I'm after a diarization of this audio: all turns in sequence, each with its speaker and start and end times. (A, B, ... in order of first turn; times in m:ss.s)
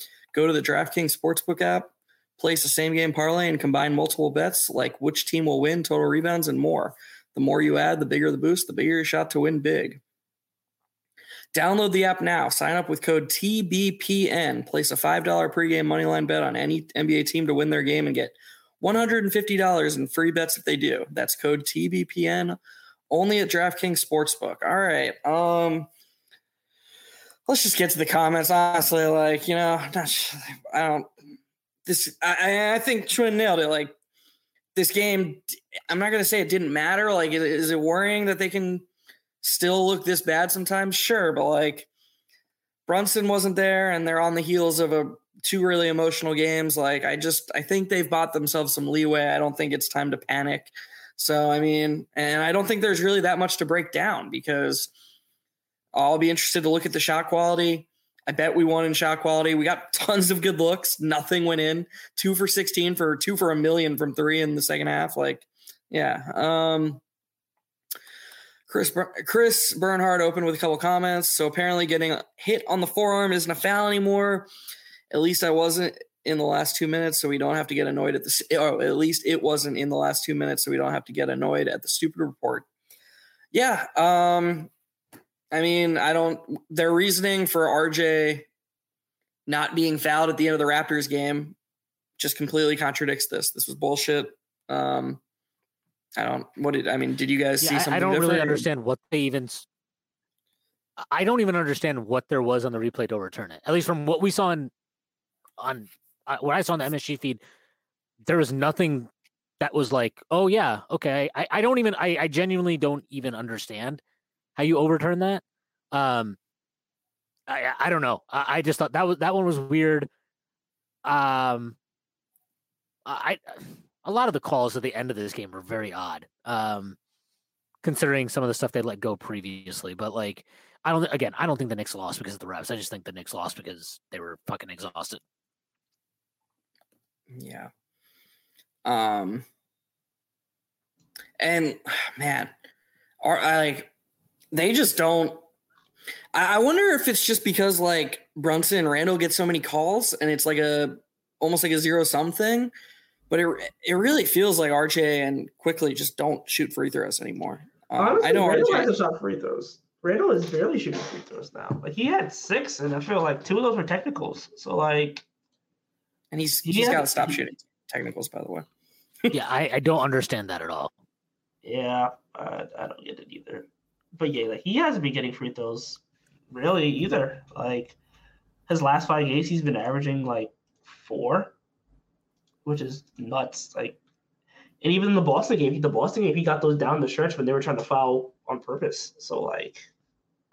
0:00.3-0:10.0 A
0:11.5-0:22.6 A
0:23.1-0:25.9 A
0:27.5-0:31.1 A
0:31.8-0:33.9 A
0:34.7-0:38.8 A
0:39.4-0:41.9 A
0:42.9-0:54.9 A
0:55.9-1:07.0 A
1:08.7-1:14.5 A
1:15.1-1:22.7 A
1:23.5-1:24.7 A
1:25.5-1:28.5 A
1:29.5-1:31.6 A
1:32.2-1:35.2 A
1:36.2-1:38.6 A
1:37.6-1:39.6 B
1:41.0-1:44.7 B
1:45.6-1:47.4 B
1:48.2-1:54.0 B
1:54.6-1:56.4 B
1:57.5-2:00.1 B
2:01.0-2:01.8 B
2:03.0-2:07.0 B
2:07.8-2:15.2 B
2:17.3-2:17.7 A
2:18.8-2:19.4 A
2:21.4-2:22.5 A
2:23.2-2:23.9 A
2:24.5-2:25.4 A
2:26.3-2:32.7 A
2:33.3-2:38.9 A
2:38.0-2:45.2 C
2:46.3-2:48.6 A
2:46.6-2:47.4 C
2:49.3-2:50.9 B
2:51.6-2:58.0 C
2:58.7-3:01.6 C
3:02.6-3:04.0 C
3:04.8-3:09.9 C